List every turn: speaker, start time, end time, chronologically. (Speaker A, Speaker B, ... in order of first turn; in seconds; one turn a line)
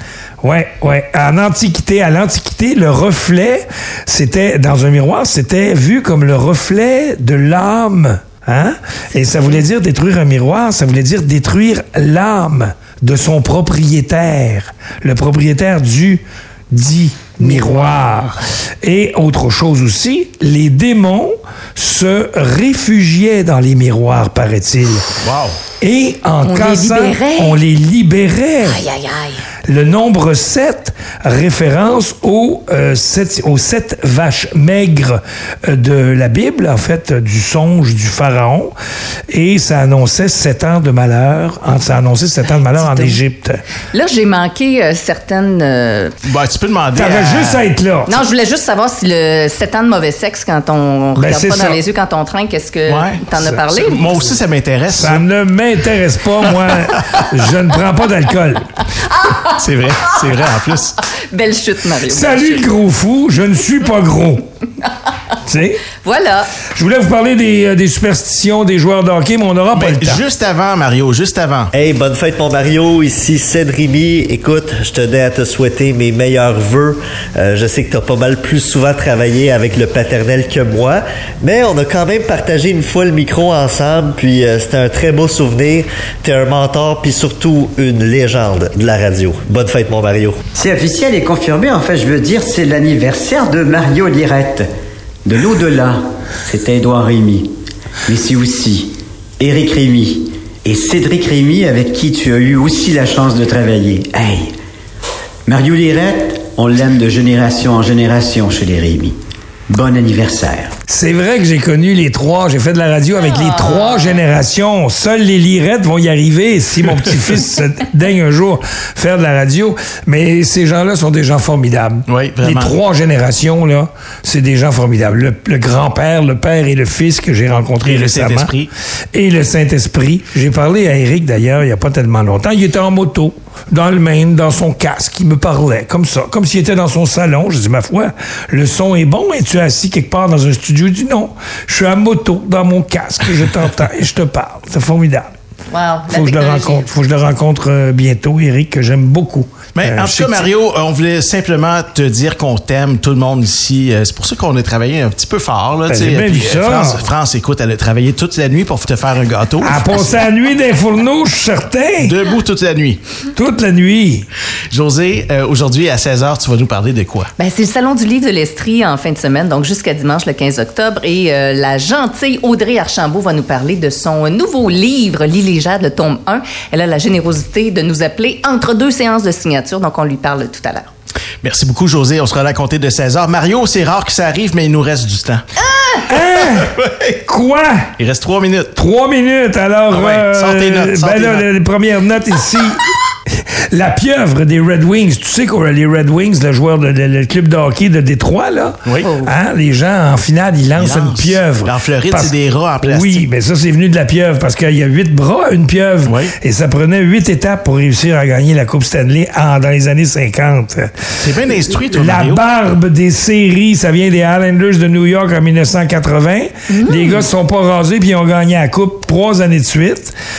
Speaker A: 0.4-25.1
Speaker B: 17.4-18.3
Speaker C: 25.2-25.6
Speaker A: 25.8-28.8
Speaker B: 26.4-27.6
Speaker B: 28.6-29.4
Speaker A: 29.7-38.7
Speaker A: 39.3-43.6
Speaker B: 42.4-43.2
Speaker B: 43.9-46.1
Speaker C: 46.3-47.7
Speaker A: 47.0-48.2
Speaker B: 48.1-54.2
Speaker A: 51.2-51.8
Speaker C: 52.9-55.3
Speaker A: 54.9-58.7
Speaker C: 56.4-57.2
Speaker B: 59.1-59.5
Speaker C: 59.6-60.9
Speaker B: 61.3-62.7
Speaker A: 62.1-64.4
Speaker A: 65.5-65.9
Speaker B: 66.0-66.5
Speaker A: 66.8-70.2
Speaker C: 69.7-71.7
Speaker D: 71.7-90.4
Speaker E: 90.5-94.7
Speaker E: 95.2-97.5
Speaker E: 98.1-104.5
Speaker E: 105.5-109.2
Speaker E: 109.7-110.7
Speaker A: 110.9-128.5
Speaker B: 113.2-114.2
Speaker C: 122.1-122.8
Speaker C: 127.8-128.7
Speaker A: 129.1-145.3
Speaker B: 145.7-146.9
Speaker A: 146.1-150.5
Speaker C: 149.8-160.1
Speaker A: 155.9-157.0
Speaker A: 159.6-162.2
Speaker C: 162.0-163.0
Speaker A: 163.4-164.3
Speaker C: 164.7-167.3
Speaker B: 167.4-180.9
Speaker C: 181.4-185.4
Speaker A: 186.1-186.7
Speaker C: 186.3-187.2
Speaker A: 187.3-187.9
Speaker C: 188.0-188.8
Speaker A: 188.8-192.8
Speaker C: 189.9-191.5
Speaker A: 193.7-210.9
Speaker C: 198.8-199.2
Speaker B: 199.0-199.3
Speaker C: 200.8-203.3
Speaker C: 206.1-206.3
Speaker C: 211.2-212.4
Speaker A: 211.9-220.1
Speaker B: 216.7-217.3